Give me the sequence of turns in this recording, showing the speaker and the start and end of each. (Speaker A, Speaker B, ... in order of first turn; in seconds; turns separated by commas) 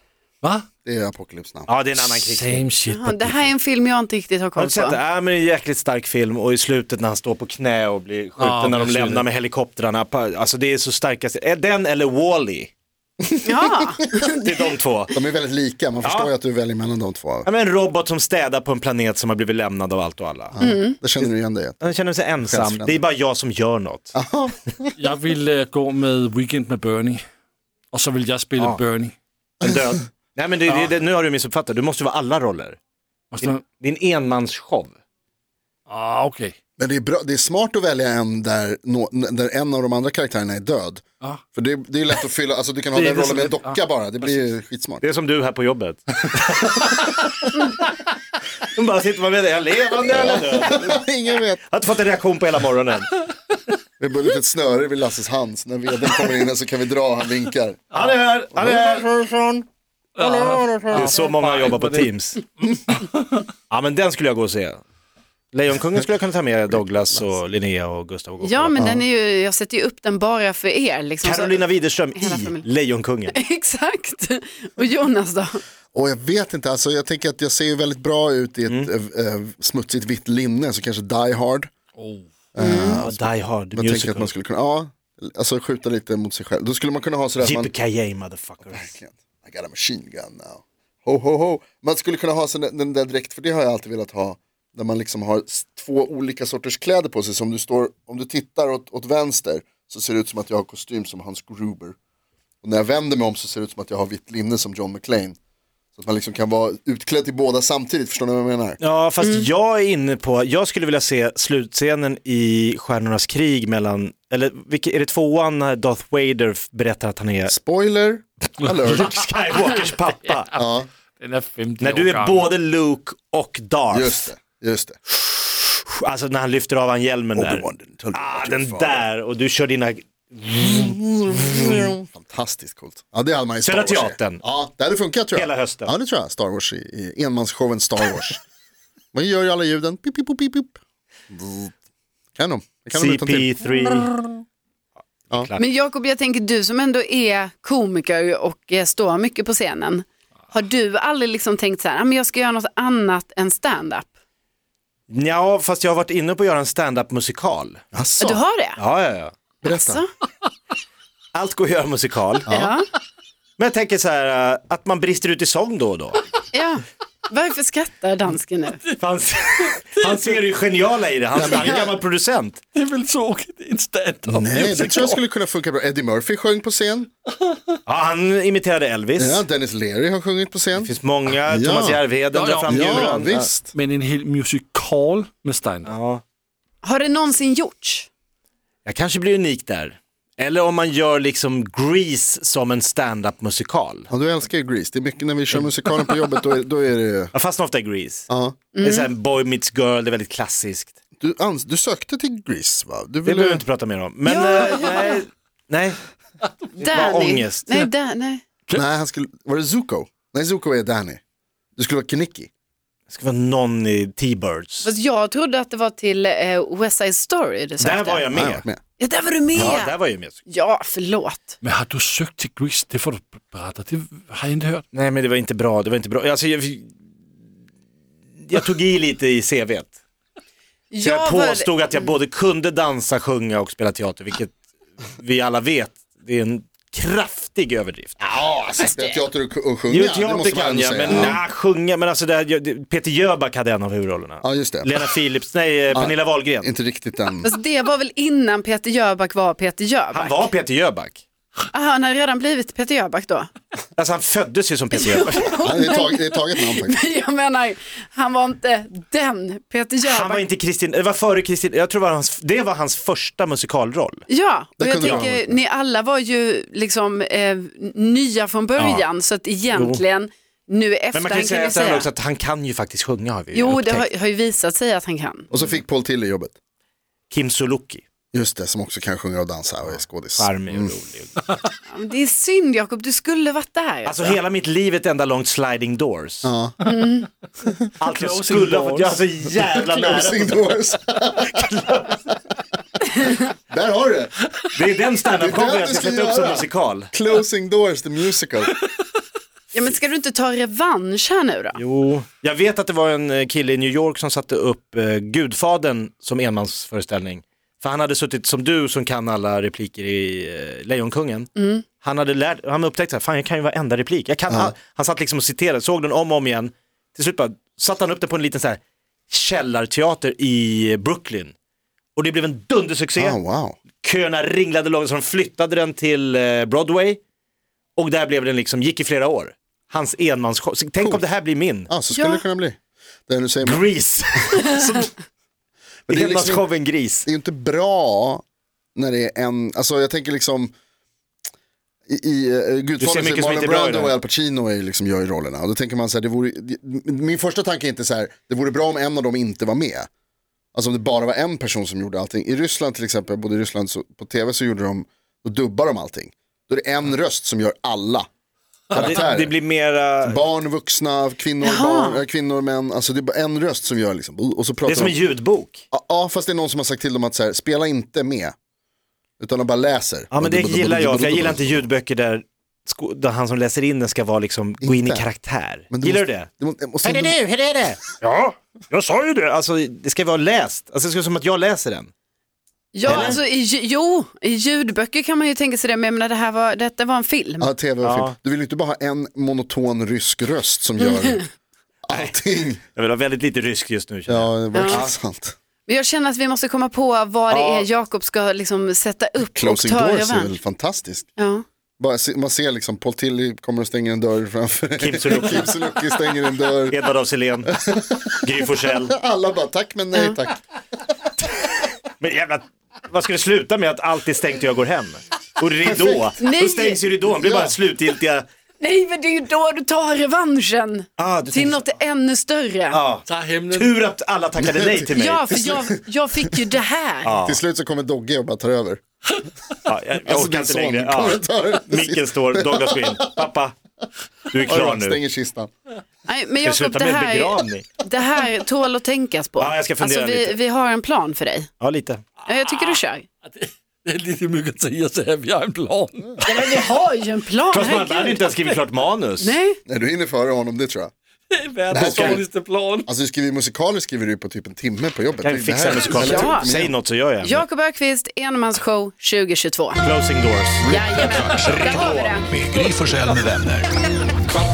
Speaker A: 0.4-0.7, Speaker B: 0.8-1.7, Speaker C: 1.7-2.6, Speaker A: 1.9-3.4, Speaker D: 2.9-5.0, Speaker C: 4.5-12.7, Speaker A: 8.4-9.2, Speaker B: 13.2-13.5, Speaker D: 13.4-14.7, Speaker C: 14.4-15.1, Speaker B: 15.1-17.5, Speaker C: 16.0-16.3, Speaker C: 17.4-20.6, Speaker B: 20.5-23.0, Speaker D: 20.6-21.0, Speaker C: 21.8-24.1, Speaker B: 24.1-24.9, Speaker A: 25.0-27.2, Speaker A: 27.9-29.1, Speaker C: 29.6-32.8, Speaker A: 33.3-33.6, Speaker C: 33.4-34.9, Speaker A: 35.9-36.5, Speaker B: 36.8-45.0, Speaker A: 42.9-43.8, Speaker C: 45.0-47.6, Speaker C: 48.7-51.0, Speaker B: 50.0-51.6, Speaker C: 51.7-53.1, Speaker B: 54.0-59.7, Speaker C: 57.9-59.0, Speaker A: 60.1-63.4, Speaker B: 60.2-61.1, Speaker C: 60.9-62.4, Speaker C: 63.7-64.8, Speaker C: 65.5-68.8, Speaker D: 68.4-72.6, Speaker B: 68.7-69.0, Speaker C: 71.2-73.4, Speaker D: 73.3-75.6, Speaker B: 75.9-81.7, Speaker C: 78.7-78.9, Speaker A: 82.0-82.2, Speaker B: 82.5-87.7, Speaker D: 82.6-83.0, Speaker C: 82.9-84.3, Speaker C: 87.4-88.9, Speaker B: 88.7-102.0, Speaker B: 102.6-105.3, Speaker B: 106.0-108.8, Speaker C: 108.8-117.5, Speaker B: 117.5-119.1, Speaker C: 118.8-120.5, Speaker B: 120.5-120.9, Speaker A: 121.2-122.5, Speaker C: 121.8-124.3, Speaker B: 123.9-125.0, Speaker C: 125.1-131.9, Speaker B: 127.3-129.0, Speaker B: 130.6-138.4, Speaker C: 133.6-134.4, Speaker C: 135.3-135.9, Speaker B: 139.1-140.8, Speaker B: 141.3-141.7, Speaker B: 142.4-143.6, Speaker C: 142.9-144.1, Speaker C: 145.3-145.6, Speaker D: 145.6-154.1, Speaker C: 155.1-157.8, Speaker B: 157.9-158.4, Speaker D: 158.2-158.8, Speaker C: 158.8-159.3, Speaker B: 159.6-160.0, Speaker D: 159.6-160.1, Speaker C: 161.3-162.5, Speaker B: 162.5-162.7, Speaker D: 162.5-162.8, Speaker C: 163.6-166.2, Speaker D: 166.5-168.8, Speaker C: 169.0-172.6, Speaker B: 171.3-172.0, Speaker A: 172.7-175.2, Speaker B: 174.2-177.1, Speaker C: 177.8-179.4, Speaker B: 179.2-182.0, Speaker C: 180.7-183.4, Speaker A: 182.3-185.9, Speaker B: 182.7-183.7, Speaker C: 185.8-186.2, Speaker D: 186.8-188.1, Speaker C: 188.8-194.1, Speaker B: 194.1-197.3, Speaker C: 197.3-198.3, Speaker B: 198.3-198.6, Speaker D: 198.7-199.1, Speaker C: 198.8-200.9, Speaker B: 201.2-203.6, Speaker C: 203.2-206.0, Speaker D: 204.2-205.2, Speaker D: 206.8-208.4, Speaker C: 206.8-207.8, Speaker B: 208.7-211.2, Speaker B: 211.8-212.5, Speaker C: 213.1-214.9, Speaker D: 214.8-218.3, Speaker C: 217.8-218.6, Speaker B: 218.3-218.8, Speaker D: 219.0-219.9, Speaker C: 219.5-220.4, Speaker D: 220.5-221.5, Speaker A: 221.6-224.8, Speaker C: 224.9-226.9, Speaker C: 228.5-229.9, Speaker D: 230.9-231.7, Speaker C: 231.0-238.2, Speaker B: 238.2-241.4, Speaker D: 238.7-239.2, Speaker C: 239.9-246.7, Speaker B: 244.4-245.0, Speaker B: 245.9-247.5, Speaker D: 247.4-250.5, Speaker C: 250.1-251.2, Speaker D: 251.7-253.5, Speaker C: 253.9-255.6, Speaker D: 254.9-260.4, Speaker B: 255.6-257.0, Speaker C: 260.0-264.2, Speaker D: 264.3-272.1, Speaker B: 264.8-265.6, Speaker C: 265.0-265.3, Speaker C: 268.8-269.0, Speaker C: 269.7-270.0, Speaker C: 271.1-274.1, Speaker D: 273.5-275.5, Speaker B: 275.5-276.5, Speaker C: 275.5-275.8, Speaker C: 277.3-278.0, Speaker B: 278.3-280.9, Speaker C: 280.4-281.4, Speaker D: 281.9-284.4, Speaker C: 284.1-286.5, Speaker B: 286.4-286.8, Speaker D: 286.8-287.3, Speaker C: 288.0-290.7, Speaker A: 288.1-289.2, Speaker B: 289.5-291.6, Speaker C: 291.4-292.2, Speaker B: 293.7-294.3, Speaker C: 294.7-297.1, Speaker B: 295.3-298.7, Speaker D: 299.7-301.8, Speaker C: 301.7-321.5, Speaker D: 311.6-311.8, Speaker B: 314.5-314.7, Speaker C: 322.1-323.4, Speaker B: 323.2-323.8, Speaker C: 324.0-327.2, Speaker C: 327.9-331.9, Speaker B: 331.9-333.9, Speaker D: 332.1-332.4, Speaker C: 333.6-335.1, Speaker C: 336.1-337.3, Speaker B: 336.1-336.7, Speaker B: 337.2-338.4, Speaker B: 338.9-340.7, Speaker B: 342.1-350.1, Speaker C: 343.0-344.1, Speaker B: 350.7-358.3, Speaker B: 358.9-359.6, Speaker C: 358.9-360.4, Speaker B: 360.2-365.2, Speaker D: 361.6-362.2, Speaker C: 364.9-365.8, Speaker B: 365.9-368.5, Speaker B: 369.4-371.9, Speaker C: 370.3-376.5, Speaker B: 374.8-375.3, Speaker B: 375.9-377.4, Speaker C: 377.0-382.1, Speaker D: 382.9-387.7, Speaker B: 383.0-383.4, Speaker C: 383.0-383.4, Speaker B: 387.6-391.4, Speaker C: 388.0-388.4, Speaker D: 391.0-391.4, Speaker B: 392.0-392.8, Speaker C: 392.1-392.4, Speaker C: 392.9-395.1, Speaker B: 394.3-395.6, Speaker D: 394.7-395.0, Speaker D: 395.9-400.6, Speaker C: 397.5-397.9, Speaker B: 399.5-401.3, Speaker D: 401.4-401.6, Speaker B: 402.0-407.0, Speaker C: 405.0-405.7, Speaker C: 406.9-407.7, Speaker B: 407.7-408.5, Speaker C: 408.4-409.1, Speaker B: 409.0-410.6, Speaker C: 412.1-418.5, Speaker B: 415.9-416.2, Speaker D: 416.4-417.1, Speaker B: 417.3-417.7, Speaker D: 418.8-423.0, Speaker C: 421.2-421.9, Speaker C: 422.9-425.6, Speaker A: 423.2-423.9, Speaker B: 424.6-426.5, Speaker D: 425.1-427.4, Speaker C: 427.2-427.6, Speaker B: 427.4-429.0, Speaker C: 429.9-433.8, Speaker B: 430.2-433.4, Speaker C: 434.5-435.2, Speaker B: 434.6-435.7, Speaker D: 436.3-441.7, Speaker C: 436.6-437.9, Speaker C: 439.6-440.6, Speaker C: 441.8-442.2, Speaker D: 442.4-443.2, Speaker A: 442.6-446.9, Speaker D: 446.4-448.4, Speaker C: 447.7-449.6, Speaker D: 449.4-449.8, Speaker B: 449.9-451.1, Speaker A: 451.5-453.1, Speaker B: 451.9-452.5, Speaker C: 451.9-452.4, Speaker B: 453.1-456.9, Speaker C: 455.4-457.6, Speaker D: 456.1-456.7, Speaker D: 457.4-460.0, Speaker C: 460.0-460.9, Speaker D: 460.8-462.7, Speaker E: 461.2-464.0, Speaker C: 461.8-462.3